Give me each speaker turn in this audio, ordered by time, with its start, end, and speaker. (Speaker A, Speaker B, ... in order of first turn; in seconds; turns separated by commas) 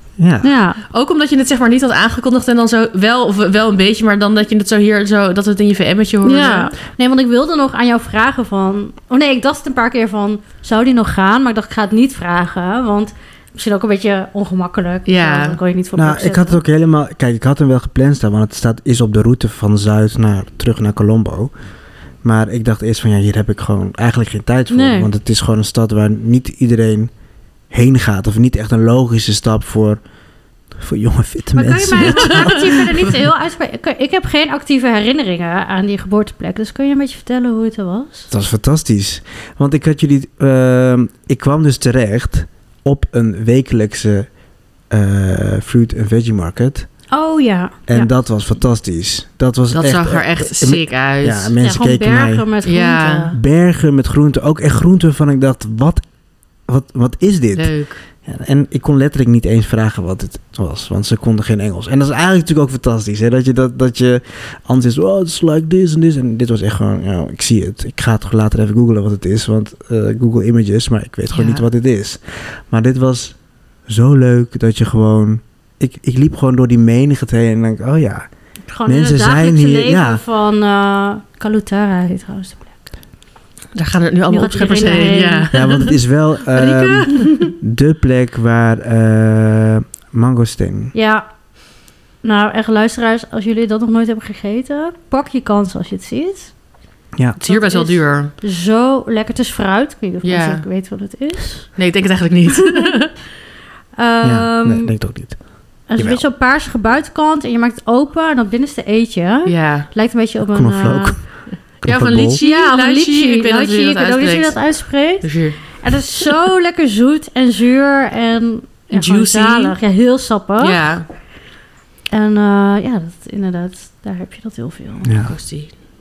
Speaker A: 0.2-0.5, Speaker B: 0.4-0.8, Speaker C: 0.9-6.7, Speaker B: 6.2-16.6, Speaker C: 15.1-15.6, Speaker A: 16.0-21.5, Speaker A: 22.2-27.1, Speaker B: 24.7-25.1, Speaker A: 27.7-30.0, Speaker A: 30.7-33.1, Speaker B: 31.6-38.3, Speaker A: 38.3-44.3, Speaker A: 44.9-46.9, Speaker B: 47.1-48.1, Speaker A: 47.9-52.5, Speaker C: 49.7-51.5, Speaker B: 51.6-53.4, Speaker C: 52.6-53.3, Speaker A: 53.3-56.1, Speaker A: 56.7-73.4, Speaker C: 57.5-58.0, Speaker C: 71.3-71.7, Speaker A: 73.9-78.3, Speaker B: 78.7-82.9, Speaker A: 78.8-80.2, Speaker C: 83.7-86.0, Speaker B: 84.3-85.5, Speaker A: 85.5-90.9, Speaker B: 86.6-87.5, Speaker C: 86.7-87.2, Speaker B: 91.0-91.2, Speaker B: 92.2-96.5, Speaker C: 97.4-98.3, Speaker B: 97.5-101.7, Speaker C: 100.2-100.7, Speaker C: 101.8-103.1, Speaker B: 104.0-104.9, Speaker A: 104.2-106.2, Speaker B: 105.9-111.2, Speaker C: 109.5-109.9, Speaker A: 110.5-112.4, Speaker C: 111.8-115.8, Speaker B: 112.4-120.9, Speaker C: 118.9-119.7, Speaker C: 120.6-121.1, Speaker B: 122.1-125.1, Speaker A: 125.1-125.3, Speaker C: 125.2-125.7